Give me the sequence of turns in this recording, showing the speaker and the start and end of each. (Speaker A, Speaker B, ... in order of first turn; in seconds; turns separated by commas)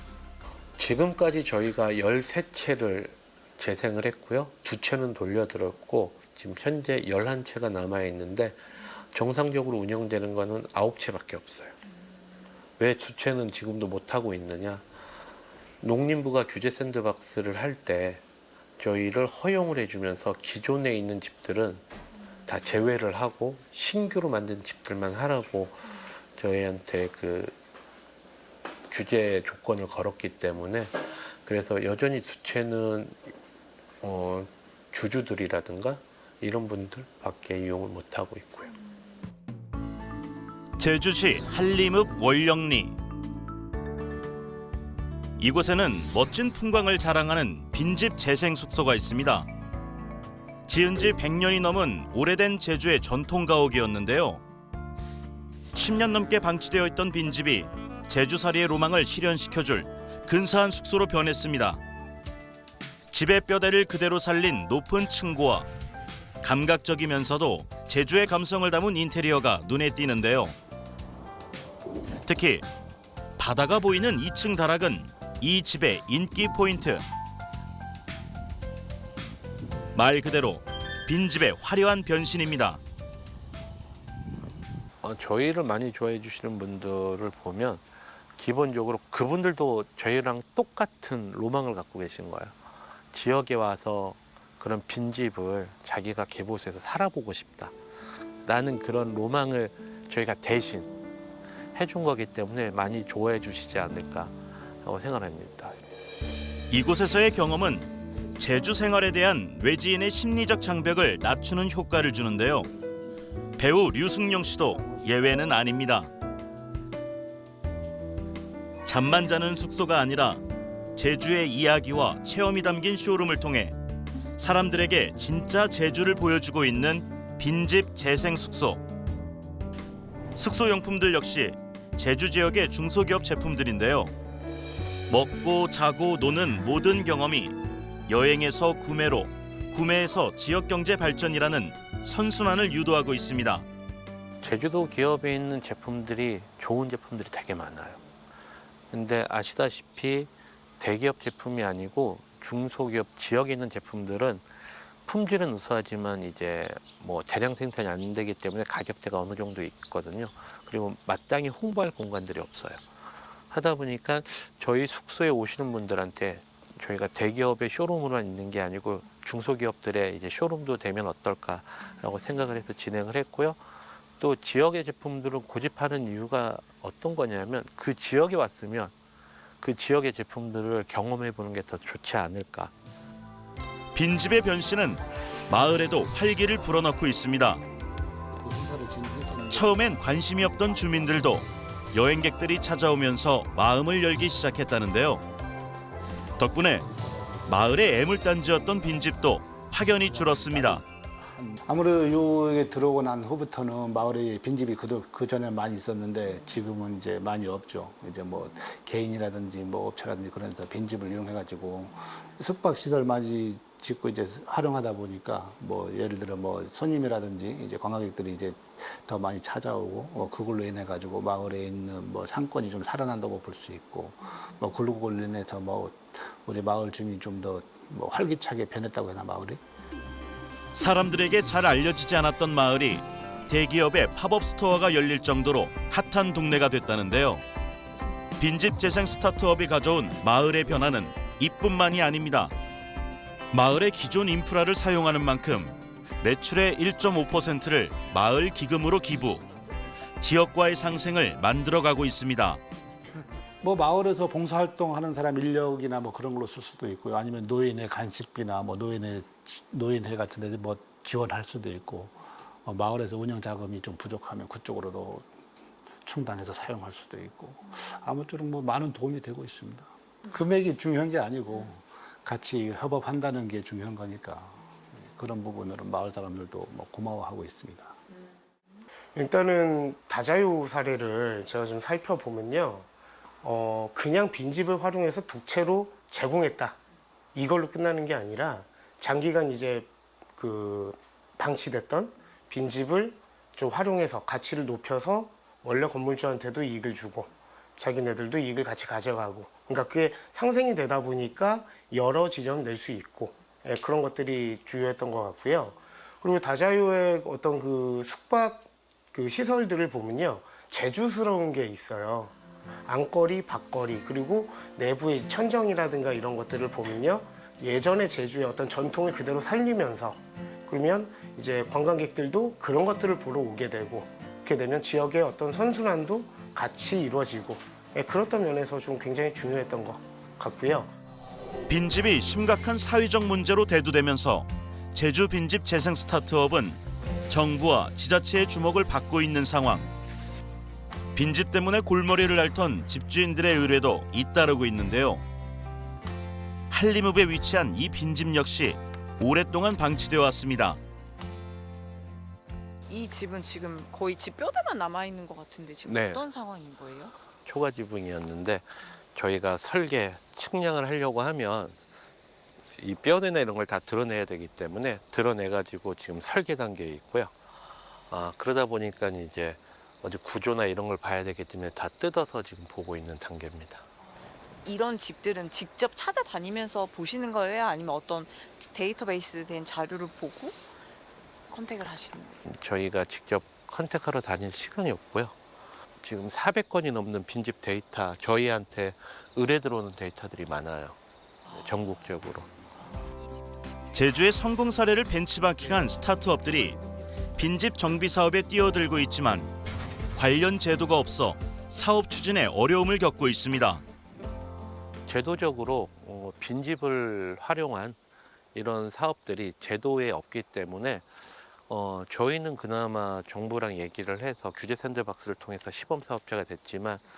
Speaker A: 0.8-11.8, Speaker A: 12.8-14.9, Speaker A: 15.8-18.2, Speaker A: 18.8-21.8, Speaker A: 22.5-27.6, Speaker A: 28.9-33.3, Speaker A: 34.0-38.7, Speaker B: 40.8-43.0, Speaker B: 45.4-49.5, Speaker B: 50.7-54.4, Speaker B: 55.8-61.8, Speaker B: 63.1-65.7, Speaker B: 66.4-70.5, Speaker B: 72.2-72.6, Speaker B: 73.4-77.0, Speaker B: 80.0-82.8, Speaker A: 85.0-87.8, Speaker A: 88.4-92.6, Speaker A: 93.1-97.8, Speaker A: 98.5-100.9, Speaker A: 101.7-105.8, Speaker B: 106.7-112.7, Speaker B: 113.6-116.1, Speaker B: 118.9-120.4, Speaker B: 121.0-123.8, Speaker B: 124.4-128.8, Speaker B: 130.4-134.1, Speaker B: 135.1-137.6, Speaker B: 138.1-143.7, Speaker A: 144.4-148.0, Speaker A: 148.9-162.8, Speaker A: 163.5-173.6, Speaker A: 174.2-178.9, Speaker A: 179.6-182.7, Speaker B: 183.9-187.6, Speaker C: 188.4-190.0, Speaker B: 189.5-195.2, Speaker B: 196.4-196.8, Speaker C: 196.8-197.8, Speaker B: 197.5-200.8, Speaker C: 200.0-229.6, Speaker B: 230.8-237.4, Speaker B: 238.4-242.6, Speaker B: 243.5-249.4, Speaker B: 250.2-252.6, Speaker C: 253.6-265.3, Speaker C: 266.0-278.0, Speaker D: 279.1-282.9, Speaker D: 283.4-286.8, Speaker D: 287.4-312.3, Speaker D: 312.9-330.9, Speaker B: 331.7-339.9, Speaker B: 341.1-345.2, Speaker B: 346.7-350.8, Speaker E: 352.9-357.1, Speaker A: 355.9-356.2, Speaker A: 357.4-361.8, Speaker A: 362.6-367.3, Speaker A: 368.1-373.8, Speaker E: 374.6-380.6, Speaker E: 381.5-382.4, Speaker A: 382.4-385.4, Speaker A: 386.0-391.0, Speaker E: 391.5-391.8, Speaker A: 391.5-392.5, Speaker B: 394.0-396.8, Speaker B: 397.4-399.5, Speaker B: 400.2-403.8, Speaker A: 405.1-408.0, Speaker A: 408.6-417.0